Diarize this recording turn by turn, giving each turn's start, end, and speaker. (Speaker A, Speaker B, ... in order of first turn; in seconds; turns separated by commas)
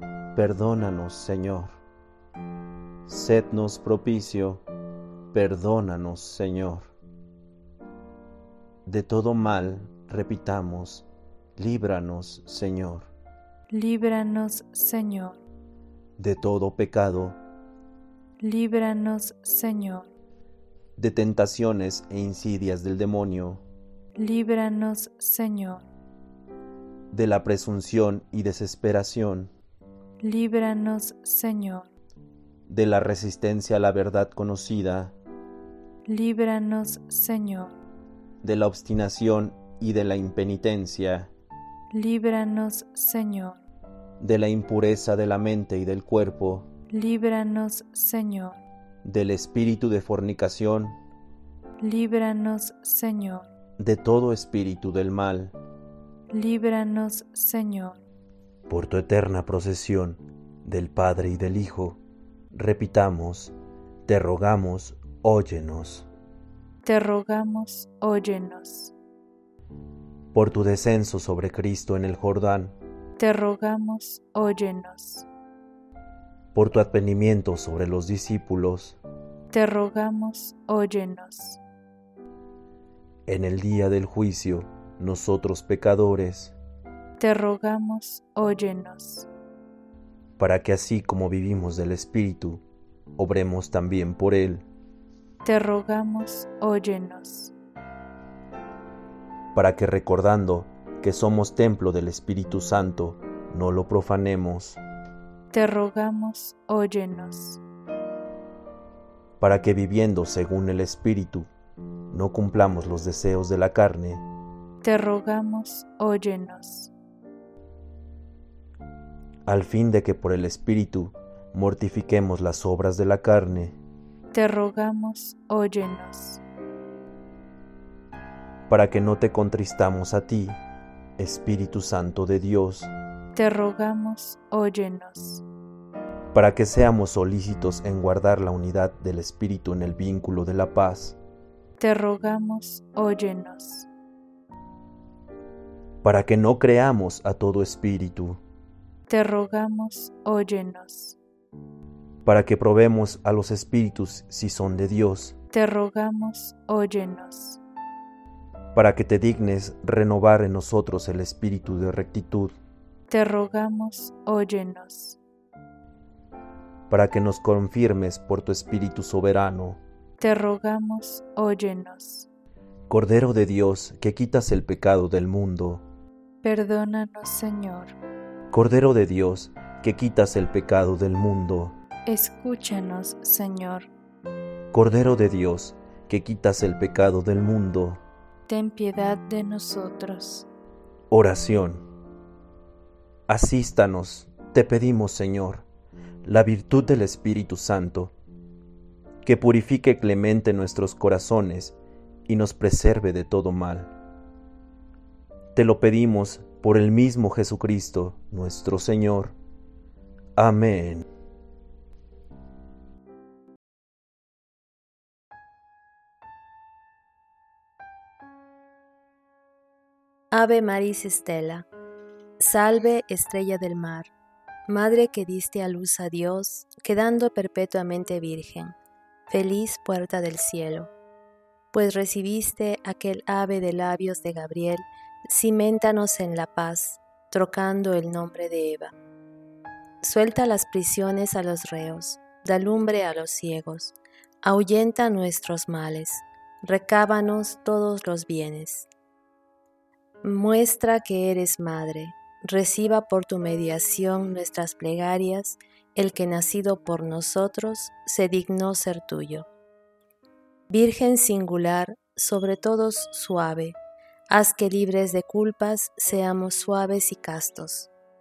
Speaker A: 0.3-1.8, Speaker A: 3.1-4.6, Speaker A: 5.3-6.9, Speaker A: 8.9-13.1, Speaker B: 13.7-15.4, Speaker A: 16.2-17.4, Speaker B: 18.4-20.1, Speaker A: 21.0-23.6, Speaker B: 24.2-25.9, Speaker A: 27.1-29.5, Speaker B: 30.2-31.9, Speaker A: 32.7-35.1, Speaker B: 36.1-37.8, Speaker A: 38.4-41.3, Speaker B: 41.9-43.6, Speaker A: 44.2-46.7, Speaker B: 46.9-48.6, Speaker A: 49.0-51.0, Speaker B: 51.8-53.5, Speaker A: 53.8-55.5, Speaker B: 56.3-58.0, Speaker A: 58.7-62.0, Speaker A: 62.5-63.5, Speaker A: 64.1-66.1, Speaker B: 66.8-68.9, Speaker A: 70.3-72.8, Speaker B: 73.2-75.2, Speaker A: 76.5-79.0, Speaker B: 79.5-81.6, Speaker A: 83.3-86.5, Speaker B: 87.2-89.3, Speaker A: 90.4-92.6, Speaker A: 93.2-94.7, Speaker B: 95.4-97.5, Speaker A: 99.5-104.8, Speaker B: 105.5-107.6, Speaker A: 109.4-111.5, Speaker A: 112.1-114.2, Speaker B: 114.8-116.9, Speaker A: 119.5-123.8, Speaker B: 124.3-126.4, Speaker A: 128.7-130.6, Speaker A: 131.2-132.9, Speaker B: 133.3-135.4, Speaker A: 136.3-141.2, Speaker B: 141.8-143.9, Speaker A: 146.0-148.4, Speaker B: 149.1-151.2, Speaker A: 152.2-155.4, Speaker B: 155.5-157.6, Speaker A: 158.8-162.6, Speaker B: 163.1-165.2, Speaker A: 166.9-169.8, Speaker B: 170.2-172.3, Speaker A: 172.9-175.8, Speaker B: 176.4-178.0, Speaker A: 178.5-181.8, Speaker B: 182.1-183.9, Speaker A: 184.7-188.0, Speaker B: 188.5-190.5, Speaker A: 191.1-191.8, Speaker A: 193.3-195.7, Speaker A: 196.2-198.1, Speaker A: 199.2-201.8, Speaker A: 202.3-203.9, Speaker A: 205.6-209.3, Speaker A: 210.4-211.1, Speaker C: 220.3-221.7, Speaker C: 222.4-224.1, Speaker C: 224.7-228.8, Speaker C: 229.3-230.9, Speaker C: 231.7-238.9, Speaker C: 240.0-248.9, Speaker C: 250.2-259.5, Speaker C: 260.7-263.8, Speaker C: 264.3-267.9